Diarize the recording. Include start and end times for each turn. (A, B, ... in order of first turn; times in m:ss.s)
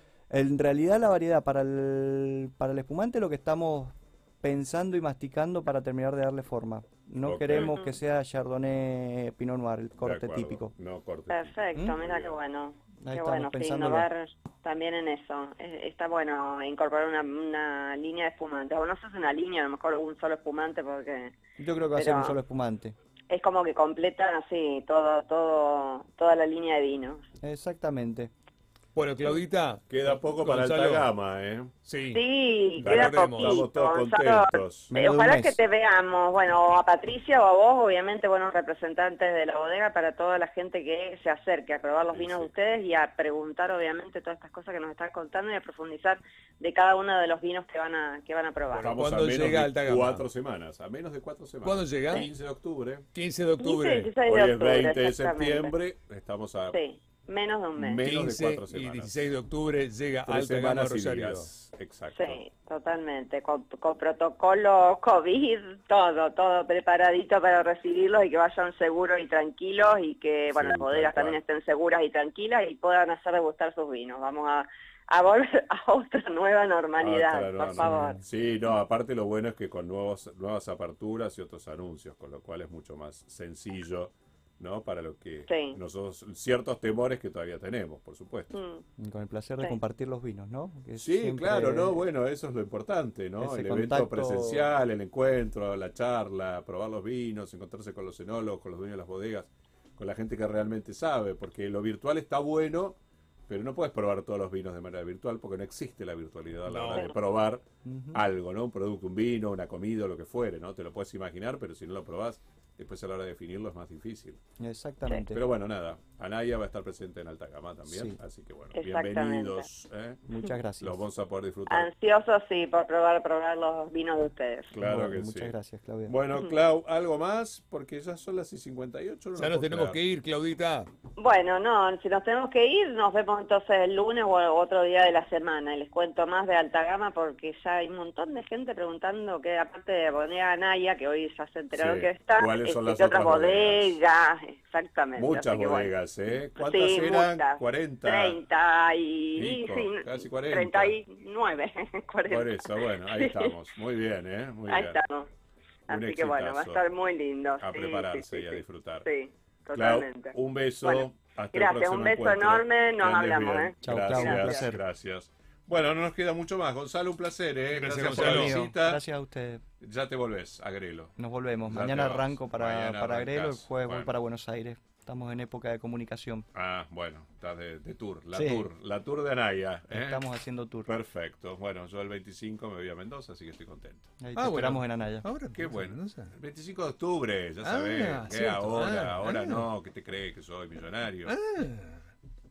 0:00.3-0:10.7 A
0:07.2-0:07.8 B
0:07.5-0:07.9 C
0:10.0-0:12.4 B
0:11.3-0:21.3 C
0:13.0-0:14.1 A
0:21.6-0:22.9 A
0:21.9-0:22.4 C
0:23.3-0:27.2 C
0:27.4-0:28.3 A
0:28.9-0:31.1 D
0:29.2-0:31.7 B
0:31.8-0:32.2 D
0:32.1-0:48.9 C
0:32.8-0:33.6 D
0:32.8-0:34.9 B
0:34.9-0:35.6 A
0:42.1-0:42.5 B
0:48.7-0:50.2 D
0:48.8-0:53.0 B
0:51.6-0:52.3 D
0:53.1-0:54.1 D
0:53.6-0:55.8 C
0:54.2-0:56.8 B
0:56.7-0:58.0 C
0:57.8-0:59.2 B
0:58.0-1:01.5 D
1:00.2-1:02.4 B
1:02.1-1:18.7 C
1:10.5-1:11.4 B
1:17.0-1:28.5 B
1:17.8-1:18.2 D
1:25.5-1:25.8 C
1:28.5-1:28.8 C
1:29.0-1:32.0 A
1:31.0-1:54.4 B
1:33.4-1:34.7 A
1:46.6-1:47.1 D
1:47.8-1:48.2 A
1:54.6-1:55.4 A
1:55.3-2:00.2 B
1:57.9-1:58.2 A
1:58.7-1:59.7 C
2:00.3-2:01.0 A
2:00.8-2:01.9 B
2:01.7-2:04.7 C
2:04.7-2:05.5 B
2:04.8-2:06.1 A
2:06.1-2:10.0 B
2:06.3-2:06.6 C
2:09.4-2:10.9 D
2:11.2-2:33.6 C
2:21.7-2:24.0 B
2:25.2-2:28.4 B
2:29.3-2:31.0 B
2:32.3-2:35.0 B
2:34.7-2:35.3 C
2:35.9-2:44.7 C
2:35.9-2:36.8 B
2:37.6-2:39.1 B
2:39.7-2:49.0 B
2:43.8-2:44.8 A
2:47.7-2:48.6 D
2:48.0-2:49.6 A
2:49.8-2:51.1 B
2:51.2-2:56.5 A
2:51.6-2:54.1 B
2:56.5-3:00.2 B
2:58.3-2:58.7 A
2:59.9-3:00.9 A
3:00.9-3:04.0 B
3:04.2-3:05.2 A
3:04.3-3:06.3 D
3:05.5-3:11.3 B
3:07.6-3:09.7 D
3:11.2-3:12.1 D